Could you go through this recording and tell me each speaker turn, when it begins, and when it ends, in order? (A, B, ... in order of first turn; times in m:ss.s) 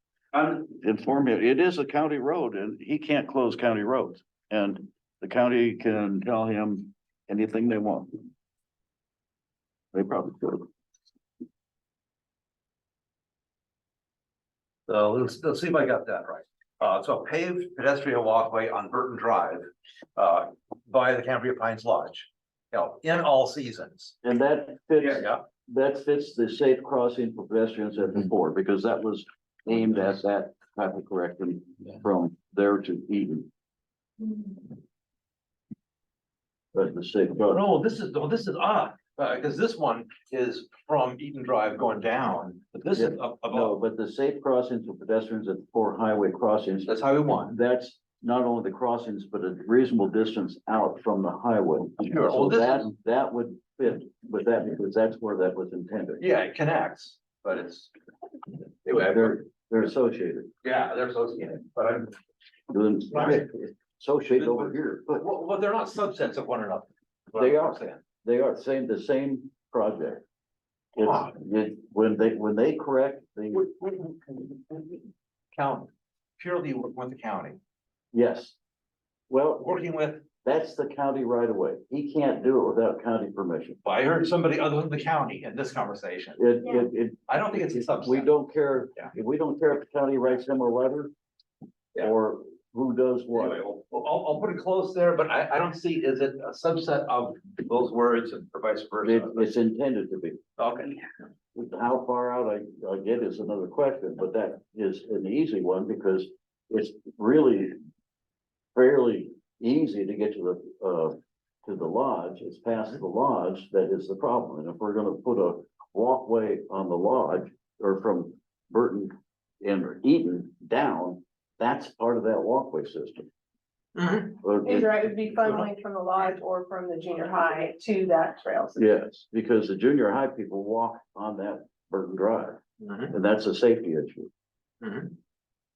0:00.6-0:08.2 A
0:09.9-0:10.7 A
0:14.9-0:19.6 B
0:20.2-0:24.1 B
0:24.2-0:33.5 A
0:25.1-0:25.4 B
0:36.7-0:37.6 A
0:37.4-0:43.8 B
0:42.9-0:46.9 A
0:46.9-0:47.6 B
0:47.5-0:56.2 A
0:52.0-0:52.9 B
0:56.2-0:57.9 B
0:58.8-0:59.4 B
0:58.9-1:00.5 A
1:00.6-1:02.1 B
1:02.7-1:05.2 A
1:03.1-1:03.4 B
1:04.4-1:08.0 B
1:07.3-1:10.2 A
1:11.0-1:13.6 A
1:11.0-1:11.3 B
1:13.5-1:15.0 B
1:15.5-1:17.6 B
1:18.1-1:18.6 A
1:19.3-1:19.6 A
1:19.6-1:20.2 B
1:20.4-1:23.8 A
1:23.8-1:26.4 B
1:26.4-1:31.1 A
1:27.3-1:28.3 B
1:32.0-1:33.6 A
1:33.3-1:39.5 B
1:39.0-1:40.4 A
1:40.6-1:41.0 B
1:41.5-1:47.8 A
1:48.7-2:03.3 A
2:04.0-2:04.4 B
2:04.4-2:05.0 A
2:04.6-2:08.9 C
2:08.8-2:12.6 A
2:12.8-2:13.1 B
2:13.1-2:14.3 A
2:14.8-2:15.1 B